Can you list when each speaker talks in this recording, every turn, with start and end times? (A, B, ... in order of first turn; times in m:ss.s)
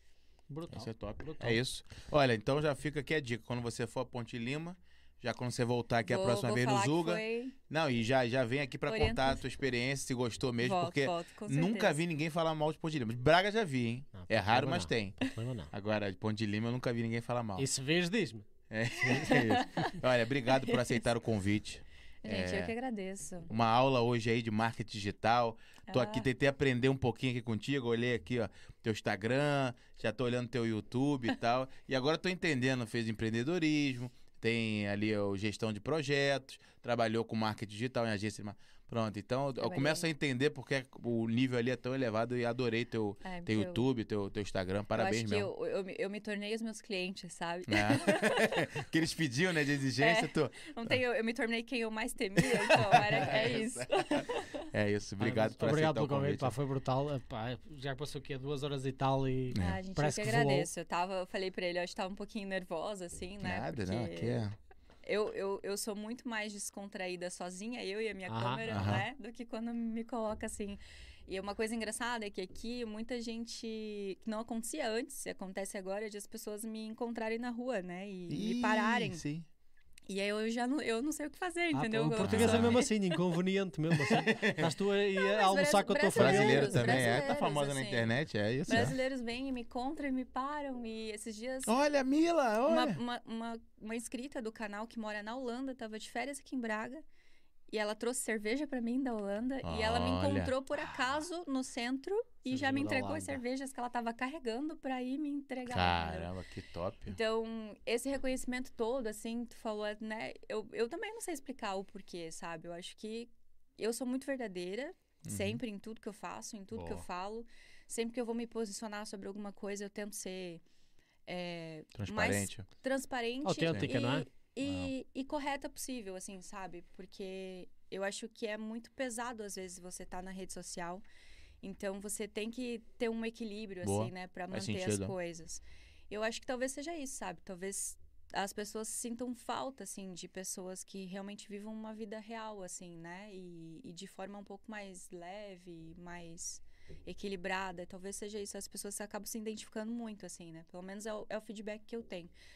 0:00.5-0:01.6 A
0:00.7-0:15.2 B
0:06.0-0:07.6 C
0:08.9-0:09.4 C
0:10.6-0:12.0 C
0:14.1-0:15.7 A
0:15.7-0:17.7 B
0:17.6-0:19.9 A
0:18.7-0:22.7 B
0:19.1-0:19.9 C
0:20.5-0:21.0 C
0:22.2-0:23.5 C
0:23.5-0:45.5 B
0:25.9-0:26.3 C
0:39.6-0:40.0 C
0:43.2-0:43.8 C
0:44.9-0:48.7 C
0:47.7-0:51.0 B
0:50.0-0:54.7 C
0:52.4-0:56.5 B
0:55.2-1:00.7 A
0:59.5-0:59.8 B
0:59.5-1:04.4 C
1:03.4-1:04.5 B
1:05.0-1:19.2 C
1:08.3-1:09.0 A
1:08.7-1:09.1 B
1:18.3-1:19.5 B
1:20.1-1:22.9 C
1:21.7-1:27.3 A
1:22.2-1:22.8 B
1:23.9-1:24.7 B
1:25.2-1:28.1 C
1:26.2-1:29.0 B
1:28.7-1:31.7 C
1:31.6-1:33.0 B
1:32.6-1:37.0 C
1:37.7-1:46.3 C
1:39.6-1:40.5 B
1:40.8-1:41.2 A
1:42.5-1:43.4 A
1:45.7-1:47.2 B
1:47.1-2:00.6 C
1:55.2-1:55.6 B
1:56.7-1:57.0 A
2:01.3-2:11.0 C
2:01.9-2:02.6 B
2:03.4-2:04.2 A
2:04.6-2:04.9 B
2:11.6-2:32.3 C
2:13.8-2:15.1 B